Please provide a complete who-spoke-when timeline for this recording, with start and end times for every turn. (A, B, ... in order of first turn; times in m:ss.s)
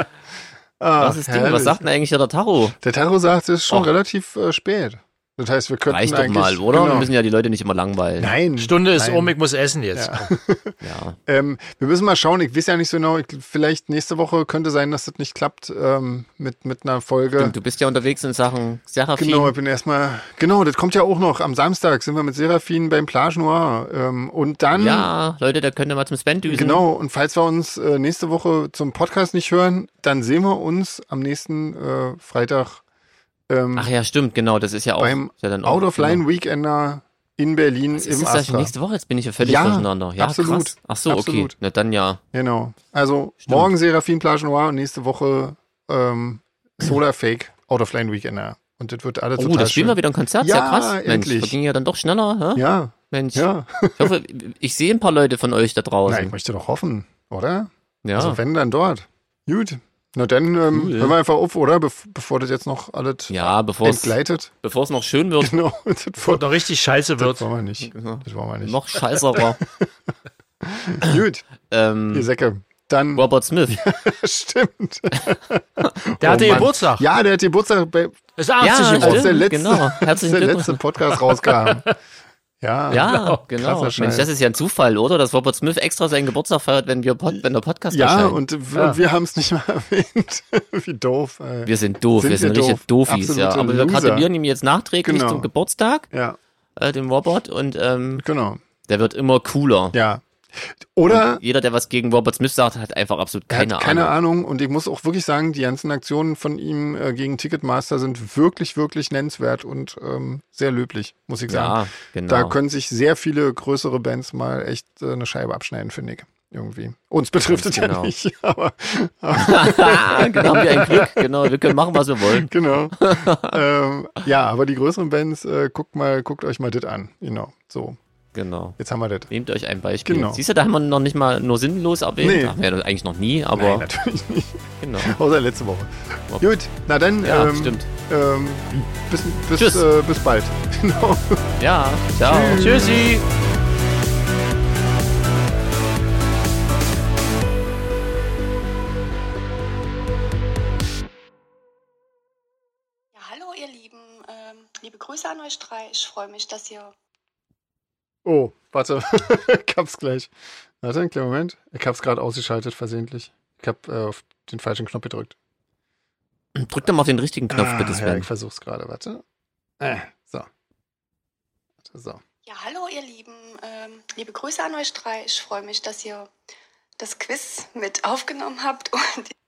0:00.8-0:01.8 A
0:01.0-0:02.8 B
0:02.8-0:07.1 A
0:05.9-0:08.4 B
0:08.2-0:09.4 A
0:08.6-0:10.3 C
0:09.9-0:17.5 A
0:10.8-0:11.2 B
0:17.4-0:19.5 B
0:19.2-0:25.1 A
0:24.8-0:26.8 B
0:26.5-0:32.8 A
0:33.5-0:33.9 A
0:33.8-0:36.2 B
0:35.0-0:38.7 A
0:38.0-0:42.2 B
0:39.4-0:41.5 A
0:42.3-0:51.6 A
0:43.4-0:43.7 B
0:49.4-0:56.3 B
0:52.6-0:54.2 A
0:56.1-1:04.5 A
0:58.0-0:58.4 B
1:00.7-1:01.2 B
1:03.3-1:05.6 B
1:05.4-1:06.5 A
1:06.2-1:07.5 C
1:07.2-1:09.9 A
1:07.9-1:09.6 B
1:10.6-1:11.5 A
1:11.7-1:12.3 B
1:12.1-1:18.2 A
1:13.2-1:13.8 B
1:16.2-1:17.1 C
1:18.4-1:19.4 C
1:18.6-1:20.8 B
1:19.0-1:21.9 A
1:21.4-1:21.9 C
1:22.6-1:24.3 A
1:22.9-1:28.4 B
1:23.0-1:23.4 C
1:27.9-1:34.3 A
1:28.8-1:29.0 C
1:31.6-1:36.1 B
1:35.0-1:35.5 A
1:36.1-1:36.4 A
1:36.8-1:38.2 B
1:38.2-1:38.6 A
1:38.9-1:40.0 B
1:39.9-1:41.4 A
1:41.1-1:44.1 B
1:43.5-2:01.3 A
1:51.5-1:52.6 B
1:57.5-1:58.1 B
1:59.3-2:03.6 B
2:02.3-2:08.0 A
2:08.4-2:08.8 B
2:08.8-2:09.3 A
2:09.3-2:13.9 B
2:10.0-2:10.4 A
2:12.2-2:12.6 A
2:13.6-2:21.5 A
2:14.8-2:15.2 B
2:17.2-2:17.9 B
2:19.6-2:19.8 B
2:21.6-2:22.9 B
2:22.2-2:23.1 A
2:22.5-2:23.2 C
2:33.2-2:36.9 D
2:38.2-2:45.4 A
2:46.6-2:48.3 B
2:47.5-2:49.2 A
2:49.8-2:50.5 A
2:51.9-2:52.2 A
2:52.5-2:56.3 D
2:57.0-2:59.3 D